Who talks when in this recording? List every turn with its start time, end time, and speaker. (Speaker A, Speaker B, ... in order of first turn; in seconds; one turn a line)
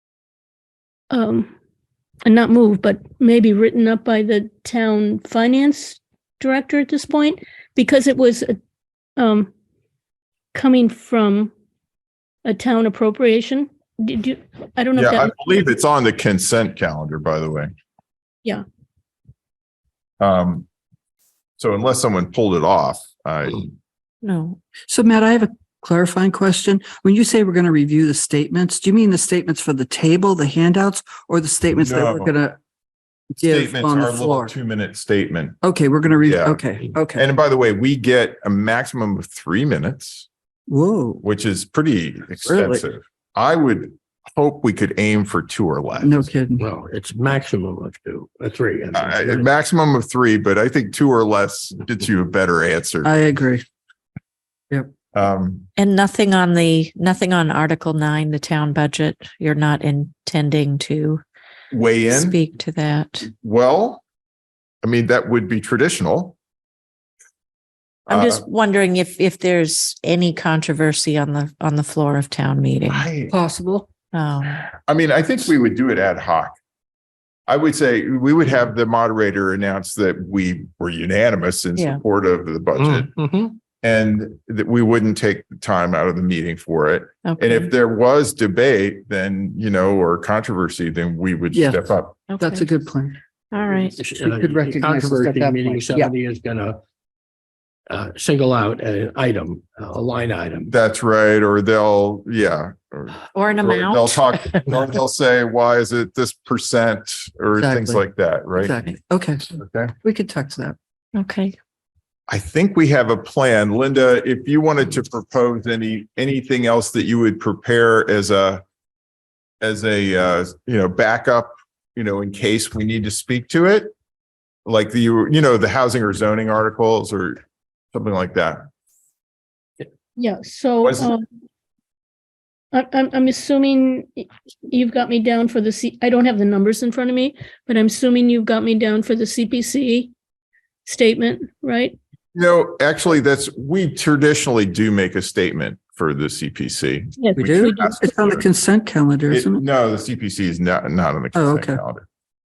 Speaker A: 1.1-1.5
Speaker A: 2.3-8.5
Speaker A: 9.2-9.5
Speaker A: 10.5-11.5
Speaker A: 12.4-15.5
Speaker B: 15.0-17.7
Speaker B: 20.2-20.7
Speaker B: 21.6-23.8
Speaker C: 24.2-24.6
Speaker D: 24.9-32.6
Speaker B: 31.8-32.3
Speaker D: 33.4-34.5
Speaker B: 33.4-35.6
Speaker D: 35.6-37.2
Speaker B: 36.3-40.3
Speaker D: 40.7-41.2
Speaker B: 41.2-46.3
Speaker D: 42.5-42.8
Speaker D: 46.0-46.6
Speaker E: 46.6-49.5
Speaker B: 48.9-53.1
Speaker D: 53.0-53.6
Speaker B: 55.1-55.7
Speaker C: 55.8-61.2
Speaker B: 61.7-62.4
Speaker C: 62.1-63.3
Speaker B: 63.3-64.0
Speaker B: 64.8-66.4
Speaker B: 68.1-68.4
Speaker C: 68.1-73.1
Speaker B: 72.9-73.3
Speaker D: 73.3-73.9
Speaker C: 74.1-74.7
Speaker B: 74.9-76.5
Speaker B: 77.5-83.1
Speaker C: 81.8-82.0
Speaker E: 82.8-83.6
Speaker B: 83.7-92.2
Speaker C: 87.3-87.7
Speaker D: 91.5-91.9
Speaker C: 92.3-92.7
Speaker D: 92.4-93.2
Speaker C: 93.5-94.0
Speaker E: 93.9-96.8
Speaker D: 94.2-96.1
Speaker E: 97.9-100.7
Speaker B: 100.7-108.7
Speaker C: 103.3-104.6
Speaker D: 107.6-108.0
Speaker D: 108.6-109.5
Speaker B: 109.5-109.9
Speaker D: 110.0-110.8
Speaker C: 111.1-111.6
Speaker B: 112.3-118.6
Speaker B: 119.6-123.9
Speaker B: 124.7-127.4
Speaker B: 127.9-128.7
Speaker A: 130.2-131.2
Speaker B: 130.8-131.1
Speaker A: 132.7-140.1
Speaker A: 140.9-142.0
Speaker B: 142.3-148.4
Speaker A: 147.2-148.0
Speaker D: 147.4-149.6
Speaker B: 149.3-152.1
Speaker D: 151.3-151.8